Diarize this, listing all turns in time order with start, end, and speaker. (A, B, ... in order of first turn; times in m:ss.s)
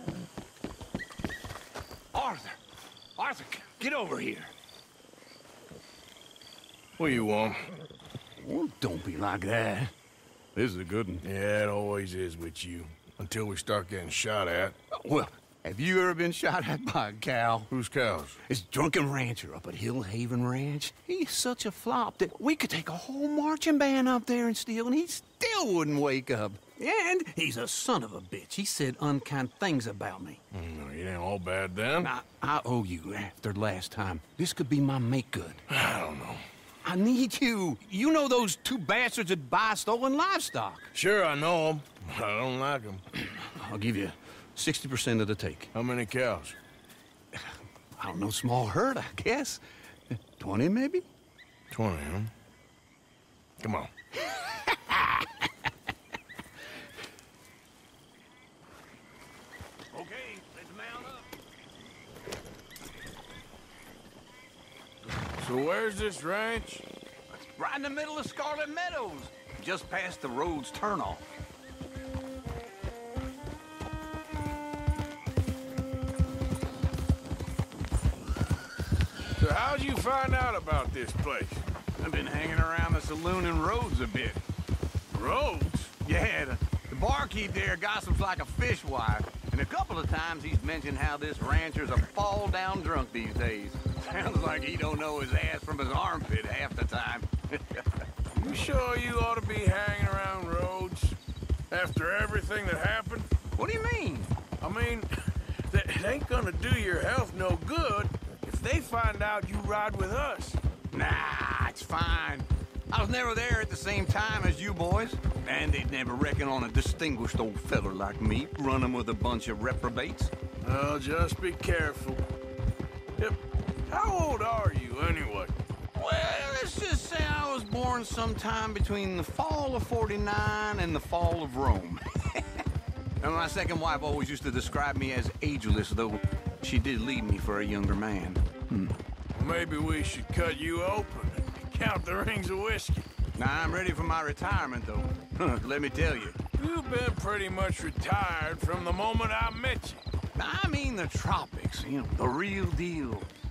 0:02.1-0:02.6 A
0:03.2-0:04.5 A
0:07.0-0:07.6 B
0:08.4-0:09.9 A
0:10.5-0:11.2 A
0:11.2-0:14.7 B
0:14.9-0:17.7 A
0:17.7-0:18.4 B
0:18.4-0:30.4 A
0:30.5-0:32.1 B
0:32.0-0:35.6 A
0:35.7-0:36.4 B
0:36.8-0:40.9 A
0:40.9-0:43.0 B
0:43.1-0:45.7 A
0:45.7-0:46.6 B
0:47.3-0:51.0 A
0:51.7-0:52.3 B
0:53.6-0:53.9 B
0:54.4-0:55.3 A
0:59.9-1:01.2 A
1:05.4-1:06.8 B
1:07.3-1:11.2 A
1:19.4-1:21.6 B
1:22.0-1:24.4 A
1:25.1-1:25.9 B
1:25.9-1:38.0 A
1:38.3-1:41.2 B
1:41.7-1:43.3 B
1:43.5-1:44.3 A
1:44.6-1:50.6 B
1:50.9-2:00.3 A
2:00.6-2:02.2 B
2:03.9-2:05.5 B
2:05.9-2:12.4 A
2:13.2-2:18.9 A
2:19.3-2:23.0 B
2:23.3-2:26.4 A
2:26.5-2:30.0 B
2:30.3-2:33.3 A